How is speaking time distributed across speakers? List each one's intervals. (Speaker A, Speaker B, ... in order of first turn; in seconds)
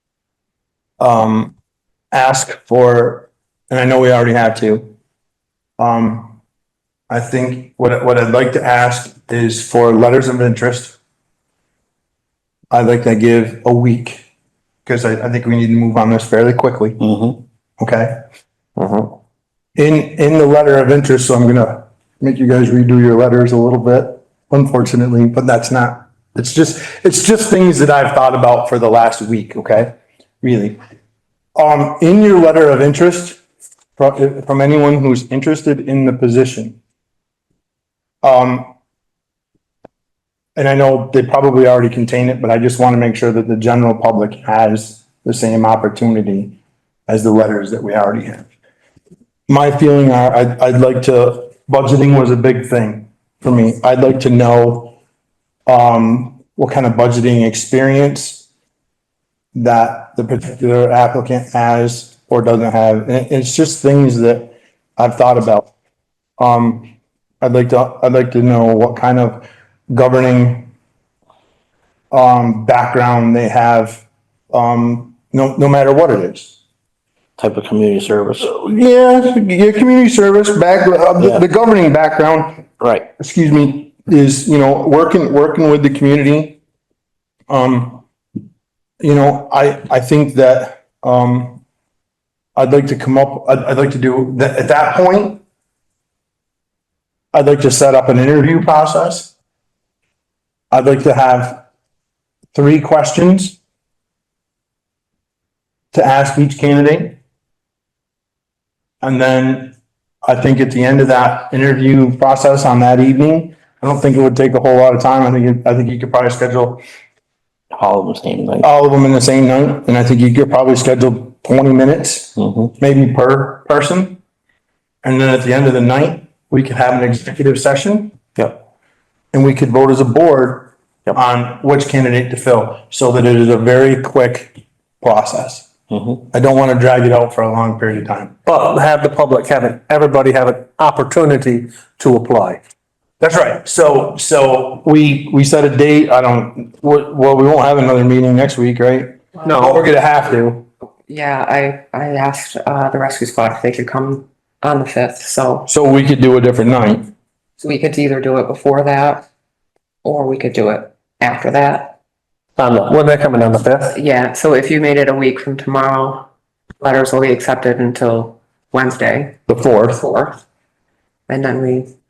Speaker A: 1.0-1.6, 2.1-4.9, 5.8-6.4, 7.1-11.0, 12.7-14.2, 14.9-17.0, 17.8-18.2, 19.8-30.8, 31.6-33.4, 34.0-36.8, 38.2-38.7, 40.6-46.6, 47.1-48.5, 49.5-55.0, 55.7-58.5, 59.5-65.7, 66.4-70.7, 72.1-76.6, 78.4-86.6, 87.5-88.0, 89.0-91.6, 92.6-95.4, 97.3-99.3, 100.7-101.6, 102.5-103.6, 105.9-107.2, 109.0-116.8, 118.6-124.2, 125.0-128.2, 129.3-135.7, 136.3-138.3, 143.2-150.7, 155.7-157.1, 169.5-170.0
Speaker B: 17.0-17.4, 77.4-78.5, 81.2-81.5, 82.8-83.1, 117.7-118.7, 122.4-122.7, 135.9-136.2
Speaker C: 138.5-142.6, 149.4-149.8, 162.6-164.0
Speaker D: 151.1-155.7, 157.6-159.3, 160.0-162.0, 163.9-166.3, 166.8-170.4, 171.3-171.9